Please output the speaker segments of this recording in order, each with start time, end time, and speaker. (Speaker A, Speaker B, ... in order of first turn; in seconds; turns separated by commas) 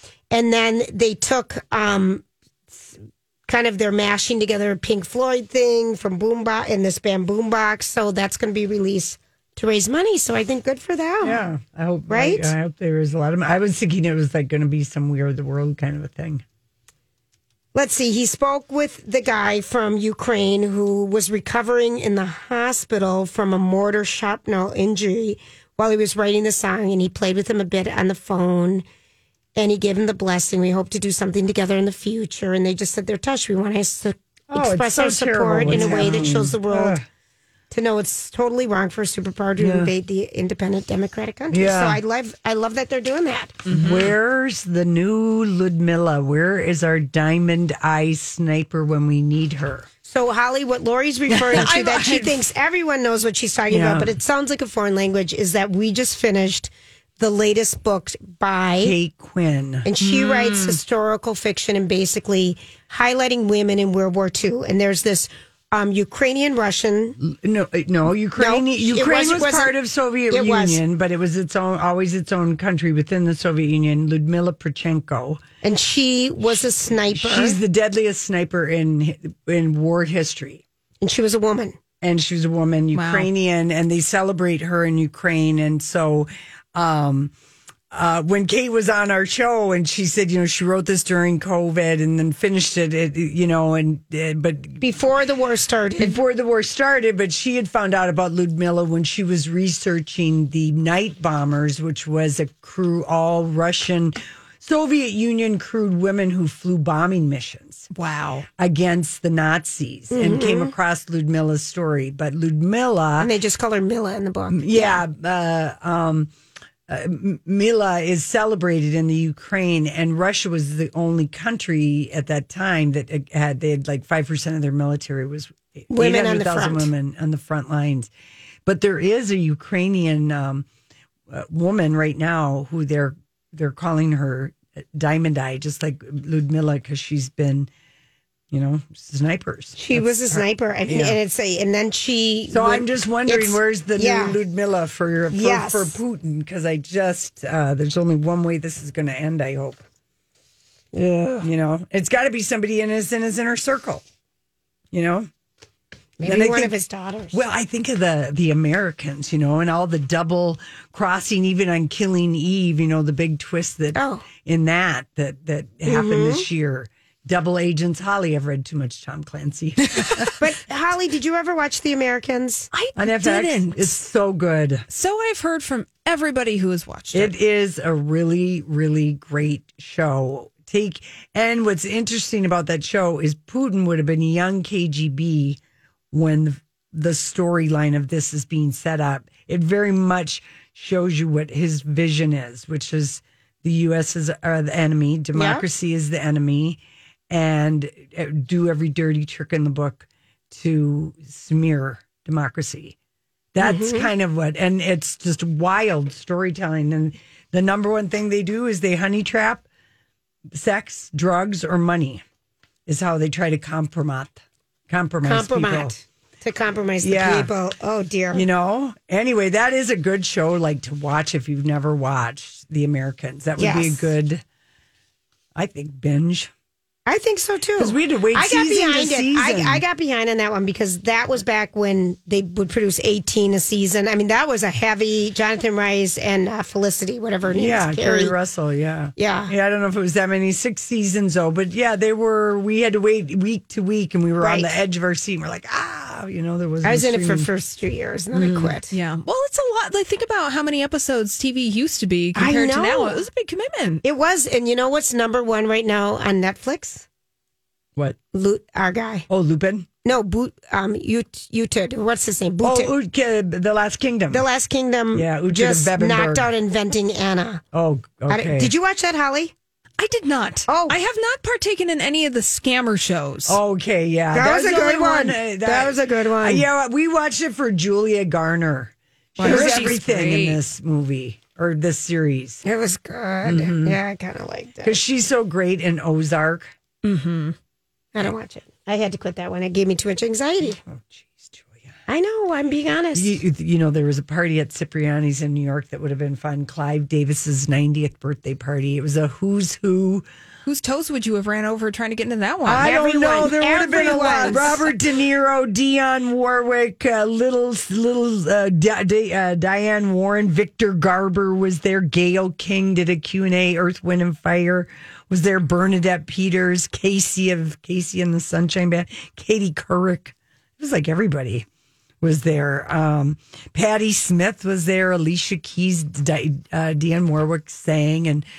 Speaker A: 0.3-2.2, Speaker A: 3.5-11.4, Speaker B: 11.2-16.4, Speaker A: 12.1-12.5, Speaker A: 17.7-28.9, Speaker A: 29.6-37.0, Speaker B: 34.5-37.0, Speaker C: 35.7-36.1, Speaker A: 37.7-43.6, Speaker B: 39.6-39.9, Speaker B: 41.5-42.0, Speaker C: 43.7-44.1, Speaker B: 43.7-49.9, Speaker A: 50.0-59.0, Speaker C: 51.3-52.4, Speaker B: 53.7-54.2, Speaker B: 58.8-60.8, Speaker A: 59.9-67.2, Speaker B: 67.2-75.4, Speaker A: 68.4-69.7, Speaker A: 70.3-70.8, Speaker A: 75.6-77.6, Speaker B: 77.1-80.6, Speaker A: 81.0-81.8, Speaker B: 82.0-87.3, Speaker C: 82.9-83.3, Speaker B: 87.9-94.8, Speaker A: 94.8-96.2, Speaker B: 96.0-107.9, Speaker C: 107.9-108.5, Speaker B: 108.6-113.3, Speaker A: 110.1-110.7, Speaker A: 113.2-115.0, Speaker B: 114.5-116.3, Speaker B: 116.9-128.1, Speaker A: 125.9-126.9, Speaker B: 128.7-130.7, Speaker B: 131.3-137.7, Speaker B: 138.5-141.2, Speaker A: 139.8-144.4, Speaker B: 142.5-149.8, Speaker A: 145.3-146.0, Speaker A: 150.9-151.5, Speaker B: 151.4-154.0, Speaker B: 154.9-155.3, Speaker A: 156.2-157.4, Speaker B: 156.2-156.7, Speaker B: 157.3-170.3, Speaker A: 163.9-164.3, Speaker A: 165.9-166.4, Speaker C: 169.9-170.3, Speaker A: 170.4-172.7, Speaker C: 172.7-174.0, Speaker B: 173.0-174.9, Speaker C: 174.9-177.3, Speaker B: 177.1-185.6, Speaker B: 186.1-203.0, Speaker A: 195.3-195.6, Speaker B: 203.5-209.7, Speaker A: 203.6-204.1, Speaker B: 210.5-212.2, Speaker B: 212.9-215.9, Speaker A: 215.2-218.5, Speaker B: 217.0-217.5, Speaker B: 218.3-224.4, Speaker A: 223.6-224.1, Speaker B: 225.6-226.5, Speaker A: 227.1-238.3, Speaker B: 227.8-229.8, Speaker B: 237.5-247.5, Speaker A: 239.2-239.5, Speaker A: 244.4-244.7, Speaker A: 246.8-248.9, Speaker B: 248.3-248.8, Speaker C: 248.9-254.0, Speaker A: 252.4-253.2, Speaker A: 254.0-257.1, Speaker A: 258.3-259.3, Speaker B: 259.3-259.9, Speaker A: 260.1-262.9, Speaker B: 262.6-264.5, Speaker A: 264.3-267.6, Speaker B: 265.1-266.5, Speaker B: 267.7-268.7, Speaker A: 268.3-269.5, Speaker C: 270.0-273.6, Speaker A: 270.7-271.0, Speaker B: 273.5-282.6, Speaker A: 274.3-276.6, Speaker C: 279.4-280.6, Speaker A: 279.4-279.9, Speaker A: 282.6-285.0, Speaker B: 283.4-284.0, Speaker B: 284.8-286.7, Speaker C: 287.0-287.6, Speaker A: 288.1-290.8, Speaker B: 290.6-291.9, Speaker A: 292.1-293.4, Speaker B: 293.1-300.2, Speaker C: 300.6-302.9, Speaker B: 302.6-321.7, Speaker A: 302.8-304.9, Speaker C: 303.9-304.5, Speaker B: 322.2-328.5